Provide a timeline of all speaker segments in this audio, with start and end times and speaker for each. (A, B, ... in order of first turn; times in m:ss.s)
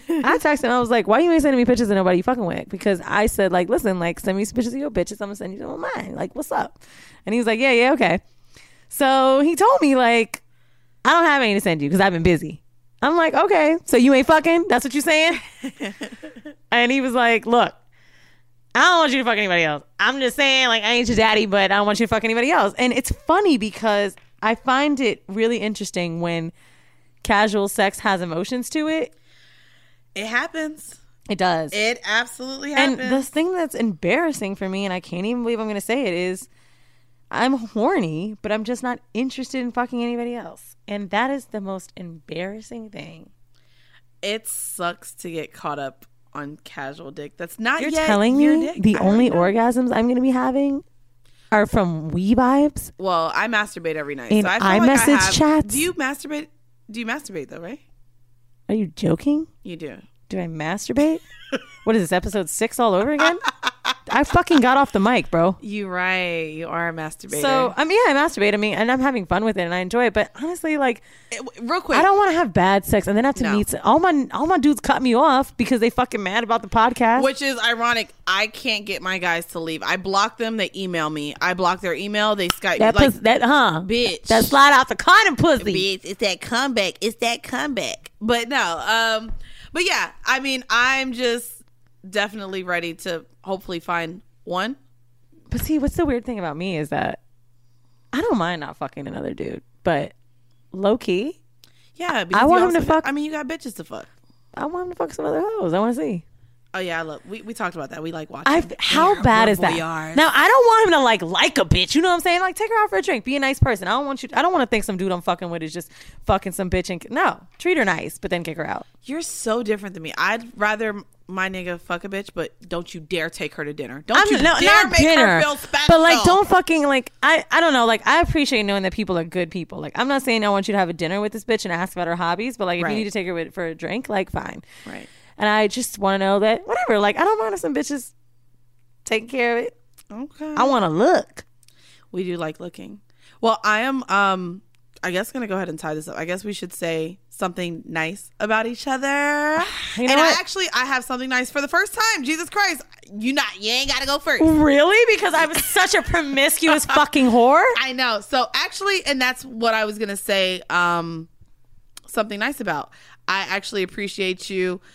0:00.2-0:08.2 A
0:08.9-0:10.4 A
0:11.0-0:15.4 A
0:15.6-0:16.1 B
0:16.7-0:17.8 A
0:18.8-0:26.5 A
0:27.2-0:29.1 A
0:30.2-0:31.0 B
0:31.3-0:31.8 A
0:31.7-0:33.2 B
0:32.8-0:36.5 A
0:37.3-0:43.3 A
0:44.2-0:49.5 B
0:47.8-0:50.8 A
0:51.5-0:52.9 A
0:53.0-0:57.8 B
0:54.3-0:55.9 A
0:58.7-0:59.5 A
0:59.6-1:00.0 B
1:00.3-1:01.2 A
1:01.8-1:03.5 A
1:03.2-1:03.7 B
1:04.1-1:05.6 A
1:05.6-1:07.7 B
1:07.3-1:11.0 A
1:11.3-1:12.1 B
1:11.9-1:17.3 A
1:13.4-1:13.6 B
1:17.2-1:23.2 B
1:22.8-1:25.8 A
1:23.8-1:24.6 B
1:25.6-1:34.8 B
1:35.5-1:37.2 A
1:38.1-1:40.1 A
1:40.7-1:41.4 A
1:42.0-1:44.1 B
1:42.3-1:43.1 A
1:44.6-1:46.2 A
1:46.7-1:50.3 B
1:48.5-1:58.8 A
1:59.0-2:06.4 B
2:04.1-2:14.6 A
2:12.8-2:13.1 B
2:15.4-2:18.1 A
2:19.0-2:19.7 A
2:20.1-2:20.8 B
2:20.6-2:21.4 A
2:22.1-2:34.5 B
2:29.6-2:30.4 A
2:34.4-2:37.8 A
2:37.8-2:41.3 B
2:42.1-2:44.8 B